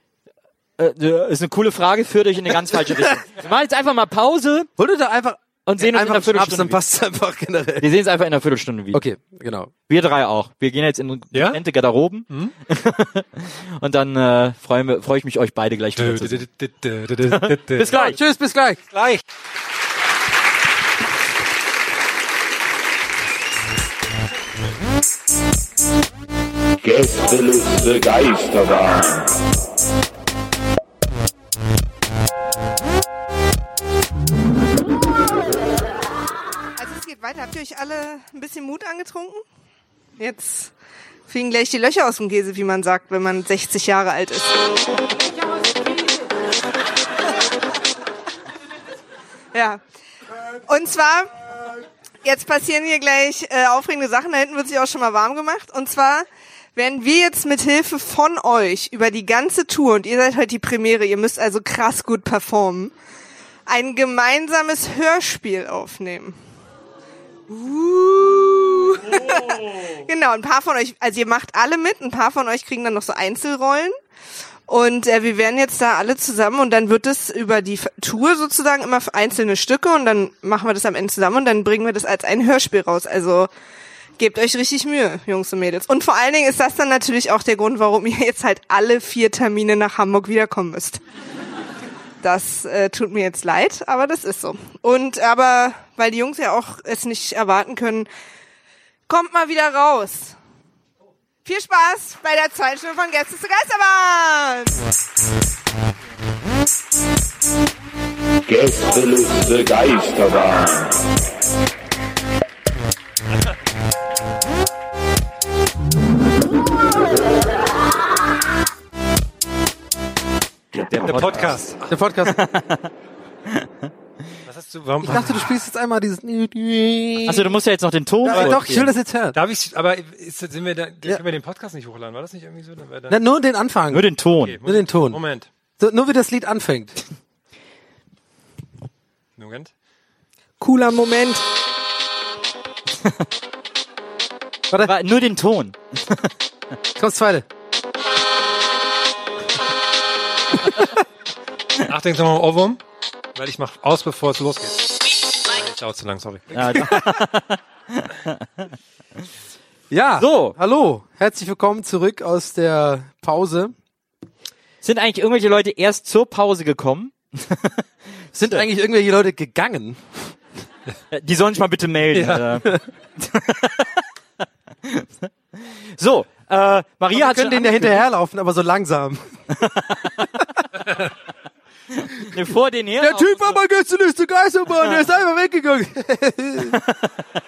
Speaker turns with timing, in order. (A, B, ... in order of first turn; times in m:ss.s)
0:00.8-0:04.7 A
0:04.8-0:07.9 B
0:05.6-0:06.8 A
0:07.8-0:09.0 A
0:08.9-0:09.7 B
0:09.9-0:16.4 A
0:11.3-0:11.6 C
0:16.0-0:18.2 C
0:17.3-0:18.2 A
0:17.8-0:18.8 B
0:18.8-0:19.2 C
0:26.8-0:29.3 D
0:36.8-0:39.4 E
0:40.2-0:40.7 E
0:41.3-0:44.6 E
0:49.5-0:49.8 E
0:50.7-0:51.3 E
0:52.2-1:02.9 E
1:03.7-1:06.4 E
1:07.5-1:13.9 E
1:14.7-1:23.5 E
1:24.2-1:31.0 E
1:32.2-1:38.1 E
1:39.1-1:40.3 E
1:41.4-1:44.8 E
1:48.5-1:51.0 D
2:00.7-2:01.6 A
2:01.0-2:02.0 C
2:01.9-2:02.4 B
2:02.2-2:02.9 A
2:04.4-2:05.5 C
2:05.0-2:07.5 B
2:07.2-2:08.9 A
2:08.2-2:09.4 B
2:09.3-2:13.2 C
2:13.1-2:14.1 B
2:13.9-2:14.6 A
2:14.4-2:15.5 C
2:14.6-2:15.2 B
2:15.8-2:17.0 B
2:19.4-2:19.7 C
2:20.6-2:21.4 E
2:24.8-2:26.3 A
2:27.0-2:27.4 B
2:31.8-2:32.8 C
2:33.3-2:36.9 C
2:36.5-2:38.4 A
2:39.9-2:43.7 B
2:40.2-2:40.6 A
2:44.8-2:47.8 A
2:48.3-2:50.0 B
2:51.1-2:54.0 A
2:52.1-2:52.6 C
2:55.6-2:58.0 A
2:57.1-2:59.4 B
2:59.6-3:00.3 A
3:01.9-3:03.6 A
3:03.0-3:06.8 B
3:06.7-3:07.1 A